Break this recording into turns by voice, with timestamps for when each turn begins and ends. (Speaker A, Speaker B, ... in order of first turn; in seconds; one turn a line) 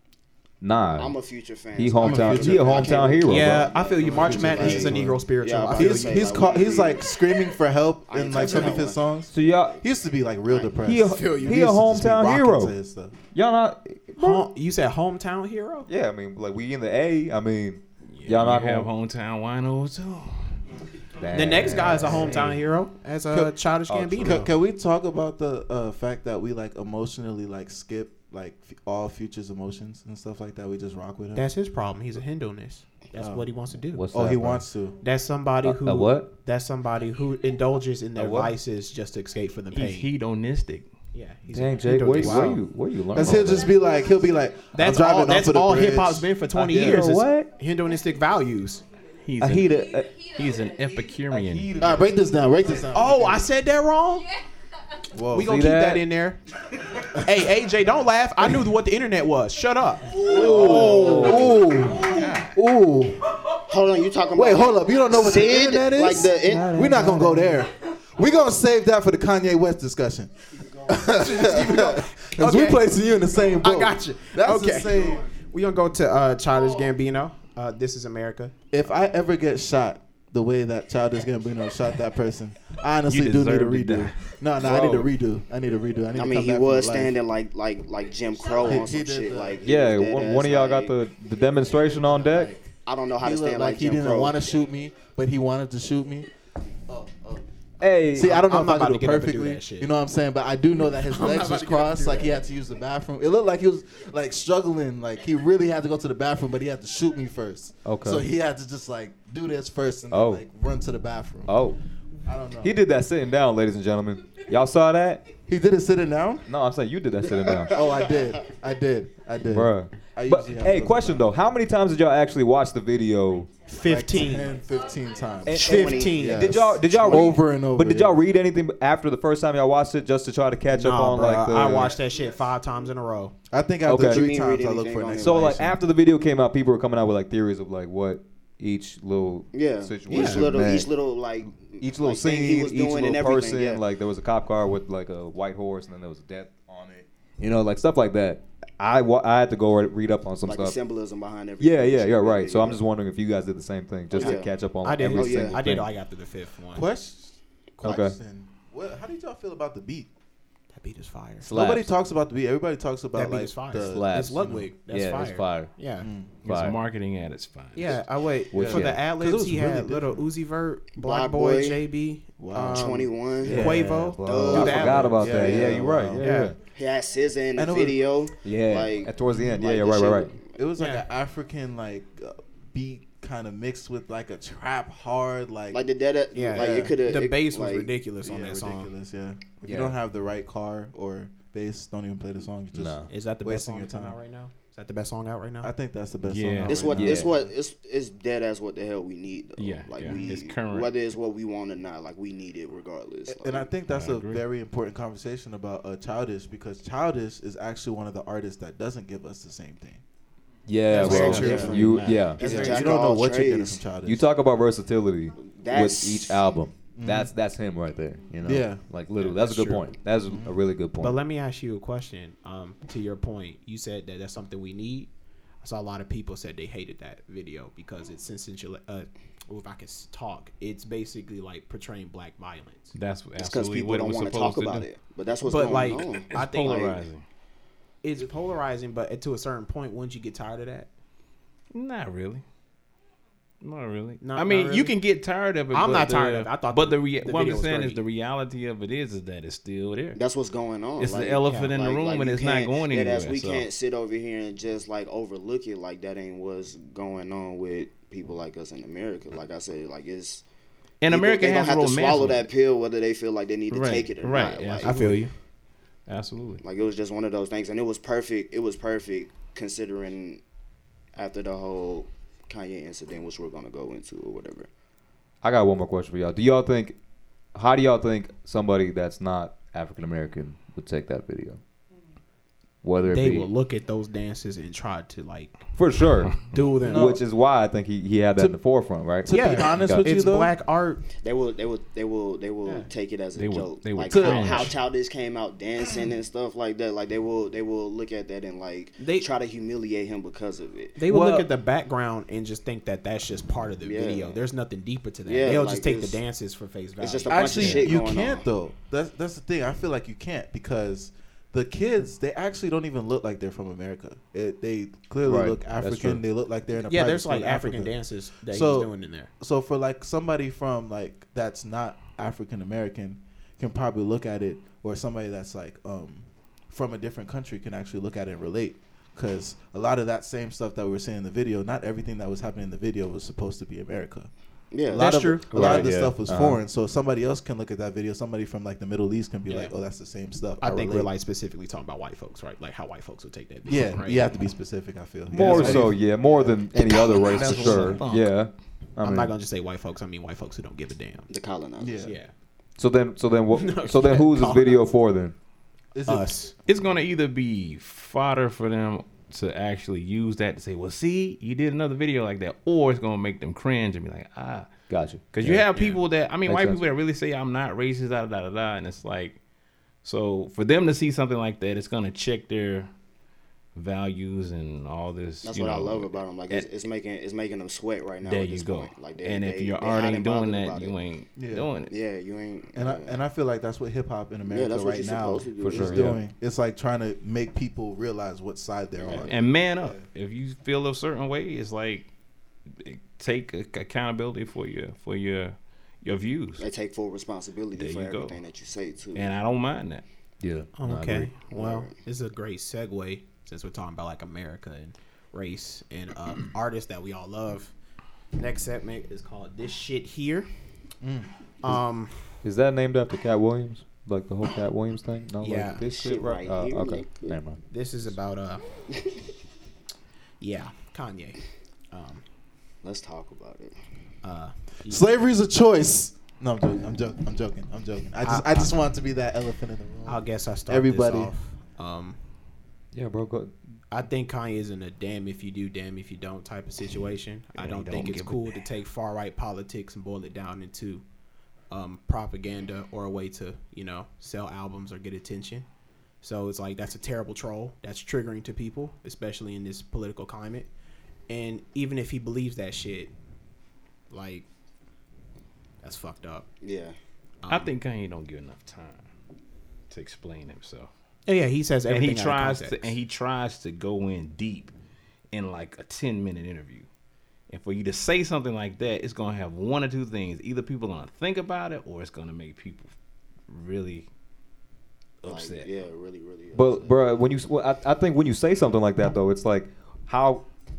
Speaker A: 0.6-1.1
Speaker B: 1.0-7.1
Speaker A: 1.8-3.7
Speaker C: 2.0-3.1
Speaker D: 3.2-6.3
Speaker C: 4.0-5.2
Speaker C: 5.8-13.2
Speaker B: 8.1-9.0
Speaker D: 8.4-8.7
Speaker A: 9.3-9.8
Speaker B: 10.4-10.8
Speaker A: 10.8-12.8
Speaker D: 11.1-11.7
Speaker A: 13.3-14.5
Speaker D: 14.2-15.9
Speaker A: 15.9-18.9
Speaker E: 18.1-20.5
Speaker A: 21.2-22.5
Speaker D: 21.3-24.5
Speaker C: 23.3-23.6
Speaker A: 23.9-24.4
Speaker C: 24.2-31.5
Speaker D: 31.4-34.0
Speaker C: 33.2-33.5
Speaker A: 33.9-34.6
Speaker C: 34.1-35.0
Speaker D: 35.0-40.1
Speaker A: 35.6-36.3
Speaker A: 38.1-38.5
Speaker E: 39.7-40.9
Speaker D: 41.1-42.6
Speaker A: 41.5-43.7
Speaker C: 42.1-42.6
Speaker C: 43.1-46.3
Speaker D: 44.7-48.8
Speaker A: 46.5-47.5
Speaker E: 49.2-51.8
Speaker A: 49.4-50.1
Speaker A: 51.3-52.1
Speaker C: 51.8-53.5
Speaker D: 52.9-54.3
Speaker C: 55.1-55.5
Speaker D: 55.3-56.4
Speaker A: 55.4-56.1
Speaker D: 57.2-61.5
Speaker C: 60.1-63.4
Speaker B: 60.3-61.1
Speaker A: 60.4-61.6
Speaker E: 60.6-61.1
Speaker E: 62.0-62.5
Speaker B: 63.7-66.8
Speaker C: 64.3-70.3
Speaker A: 66.5-67.6
Speaker C: 70.9-75.3
Speaker D: 71.1-72.8
Speaker D: 73.6-78.5
Speaker C: 78.7-87.2
Speaker E: 83.1-84.2
Speaker A: 84.6-85.1
Speaker B: 86.1-91.0
Speaker C: 88.5-89.7
Speaker A: 89.6-92.5
Speaker C: 92.0-96.3
Speaker B: 92.8-94.4
Speaker C: 96.9-97.4
Speaker A: 97.8-98.4
Speaker C: 98.1-111.5
Speaker D: 98.2-99.9
Speaker D: 100.9-102.4
Speaker A: 107.9-108.3
Speaker A: 110.1-110.4
Speaker A: 111.5-111.8
Speaker C: 112.3-112.8
Speaker A: 112.6-115.2
Speaker C: 115.5-116.5
Speaker A: 116.5-117.8
Speaker C: 117.7-121.3
Speaker A: 119.5-123.6
Speaker D: 123.7-124.6
Speaker C: 123.8-128.2
Speaker A: 125.5-131.9
Speaker D: 125.5-126.8
Speaker B: 125.5-127.4
Speaker D: 130.7-133.3
Speaker C: 131.2-131.9
Speaker C: 133.5-135.7
Speaker A: 133.9-134.3
Speaker B: 134.0-135.6
Speaker A: 135.2-140.9
Speaker B: 139.5-143.8
Speaker D: 140.1-140.6
Speaker A: 141.8-150.8
Speaker B: 150.4-152.8
Speaker A: 151.6-155.9
Speaker B: 154.1-154.5
Speaker D: 154.2-156.9
Speaker B: 155.1-155.6
Speaker C: 156.7-160.1
Speaker A: 157.8-158.2
Speaker D: 160.7-161.6
Speaker A: 161.4-161.9
Speaker C: 161.5-164.7
Speaker D: 163.2-166.1
Speaker A: 163.9-165.7
Speaker C: 166.0-166.3
Speaker A: 166.4-166.8
Speaker E: 166.4-168.0
Speaker D: 167.8-175.6
Speaker A: 168.5-169.1
Speaker C: 168.5-170.3
Speaker B: 170.9-171.8
Speaker C: 172.4-176.4
Speaker B: 172.7-175.8
Speaker A: 173.5-176.6
Speaker D: 176.2-176.5
Speaker B: 176.7-180.5
Speaker C: 177.6-178.0
Speaker A: 178.4-180.3
Speaker C: 179.3-179.7
Speaker C: 180.5-185.8
Speaker D: 180.8-181.1
Speaker B: 185.7-187.9
Speaker D: 186.3-188.9
Speaker C: 186.6-186.9
Speaker C: 188.2-194.2
Speaker A: 189.6-190.0
Speaker A: 192.7-193.1
Speaker D: 193.1-195.7
Speaker C: 195.6-197.4
Speaker E: 196.2-196.9
Speaker B: 196.7-203.7
Speaker A: 196.9-197.3
Speaker E: 199.6-200.9
Speaker C: 200.0-200.4
Speaker C: 203.3-210.0
Speaker E: 203.9-204.4
Speaker A: 210.7-212.4
Speaker D: 210.9-212.7
Speaker C: 211.0-214.3
Speaker B: 211.0-213.9
Speaker A: 214.0-221.2
Speaker B: 215.4-216.5
Speaker C: 216.9-217.3
Speaker C: 218.4-218.8
Speaker D: 219.2-219.9
Speaker C: 220.3-220.5
Speaker D: 221.0-225.1
Speaker D: 225.6-232.9
Speaker E: 232.9-234.9
Speaker B: 233.4-237.0
Speaker D: 235.4-236.9
Speaker E: 236.3-237.2
Speaker D: 238.0-240.9
Speaker E: 241.7-242.4
Speaker E: 243.6-250.2
Speaker D: 244.2-245.0
Speaker D: 245.7-248.0
Speaker B: 250.2-260.4
Speaker E: 251.0-253.7
Speaker D: 251.5-251.7
Speaker E: 261.0-262.5
Speaker B: 261.1-265.0
Speaker E: 263.7-265.2
Speaker D: 264.8-265.3
Speaker E: 266.1-266.6
Speaker B: 266.6-270.4
Speaker B: 271.2-274.7
Speaker A: 275.4-277.0
Speaker A: 277.5-281.6
Speaker A: 282.8-283.5
Speaker D: 283.1-285.6
Speaker A: 285.8-290.1
Speaker D: 286.5-287.2
Speaker C: 286.8-287.2
Speaker C: 289.2-290.5
Speaker D: 289.3-291.0
Speaker B: 291.2-301.0
Speaker E: 293.4-294.7
Speaker C: 294.1-294.6
Speaker D: 299.0-299.3
Speaker D: 301.0-307.9
Speaker C: 301.1-301.5
Speaker B: 303.8-304.4
Speaker B: 305.3-306.2
Speaker B: 307.0-308.4
Speaker C: 307.3-334.3
Speaker A: 315.2-316.2
Speaker D: 316.9-319.3
Speaker B: 334.7-335.1
Speaker C: 334.9-341.1
Speaker D: 335.0-335.9
Speaker A: 335.5-336.6
Speaker D: 339.5-339.7
Speaker D: 340.6-344.4
Speaker C: 343.7-346.6
Speaker A: 345.3-349.3
Speaker E: 345.4-345.8
Speaker D: 345.4-345.9
Speaker E: 347.0-348.3
Speaker C: 347.4-347.9
Speaker D: 347.5-348.0
Speaker D: 349.0-351.3
Speaker B: 351.3-352.1
Speaker C: 351.8-352.1
Speaker D: 352.0-352.3
Speaker A: 352.8-355.3
Speaker D: 353.5-354.9
Speaker C: 355.9-356.3
Speaker D: 356.1-356.5
Speaker E: 356.7-369.4
Speaker A: 364.9-365.9
Speaker A: 366.5-366.8
Speaker E: 370.0-372.9
Speaker E: 373.8-376.7
Speaker B: 375.4-380.9
Speaker E: 378.2-381.9
Speaker C: 381.4-381.7
Speaker B: 381.9-383.2
Speaker C: 382.8-390.0
Speaker B: 384.5-386.1
Speaker A: 385.6-386.2
Speaker B: 389.0-389.3
Speaker E: 389.1-392.1
Speaker E: 392.8-396.6
Speaker B: 396.6-399.3
Speaker E: 397.8-398.4
Speaker E: 399.1-400.0
Speaker A: 400.4-401.3
Speaker D: 400.8-407.7
Speaker B: 401.5-401.9
Speaker D: 408.4-410.5
Speaker C: 411.0-411.3
Speaker D: 411.6-412.4
Speaker A: 412.4-417.6
Speaker D: 415.4-415.9
Speaker B: 415.9-417.4
Speaker D: 417.7-418.6
Speaker D: 420.4-422.2
Speaker B: 422.8-423.8
Speaker D: 424.2-425.1
Speaker C: 424.9-431.3
Speaker D: 428.2-428.8
Speaker D: 430.1-432.2
Speaker A: 432.9-433.5
Speaker D: 433.9-441.0
Speaker E: 437.6-438.6
Speaker D: 441.7-445.7
Speaker D: 446.2-450.7
Speaker D: 451.3-453.1
Speaker D: 454.1-454.5
Speaker D: 455.8-456.5
Speaker B: 456.6-457.0
Speaker D: 457.4-457.7
Speaker E: 457.5-459.1
Speaker E: 459.9-460.9
Speaker D: 461.3-462.9
Speaker E: 461.9-464.7
Speaker E: 465.3-466.9
Speaker E: 467.5-472.9
Speaker E: 473.5-474.1
Speaker E: 475.2-475.7
Speaker B: 475.3-477.0
Speaker A: 476.5-480.4